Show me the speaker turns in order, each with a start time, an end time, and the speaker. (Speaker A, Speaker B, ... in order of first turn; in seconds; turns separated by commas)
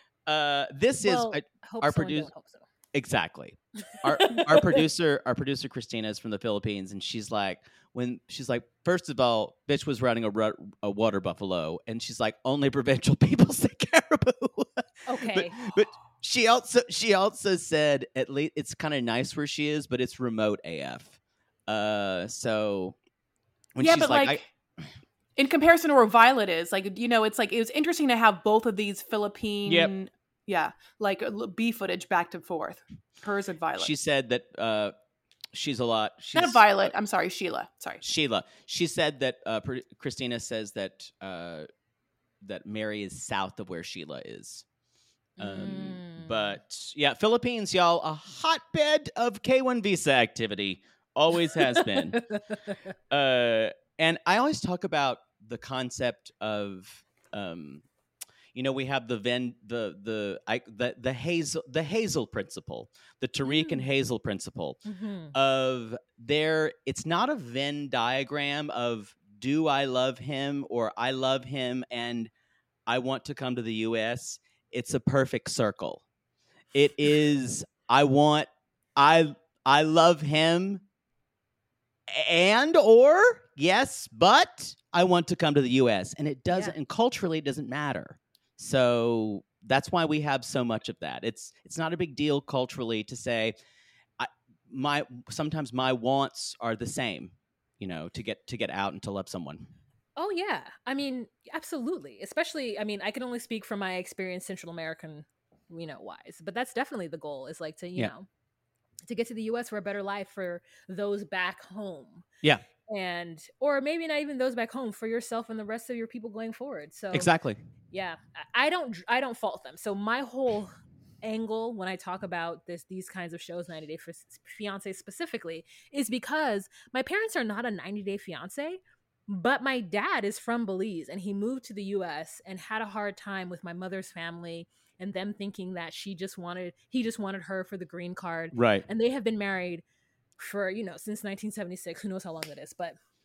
Speaker A: 0.3-2.3, Speaker B: 1.0-2.6, Speaker A: 2.9-22.9, Speaker B: 4.1-4.8, Speaker B: 15.1-15.7, Speaker A: 23.8-24.4, Speaker C: 23.8-24.4, Speaker C: 25.4-33.9, Speaker A: 29.6-29.9, Speaker A: 33.8-34.9, Speaker A: 35.5-36.9, Speaker C: 36.3-38.0, Speaker A: 38.0-41.7, Speaker A: 42.4-44.6, Speaker B: 45.4-46.5, Speaker A: 45.4-52.2, Speaker B: 52.1-52.7, Speaker A: 53.1-57.8, Speaker A: 58.5-64.8, Speaker B: 63.4-63.9, Speaker B: 64.8-65.3, Speaker A: 65.3-72.3, Speaker A: 72.9-76.0, Speaker A: 76.7-80.8, Speaker A: 82.1-93.5, Speaker B: 86.5-86.8, Speaker A: 94.2-99.7, Speaker B: 100.2-108.3, Speaker B: 109.0-112.2, Speaker B: 112.9-117.3, Speaker A: 117.1-117.6, Speaker B: 117.9-139.8, Speaker A: 138.5-138.8, Speaker B: 140.4-143.0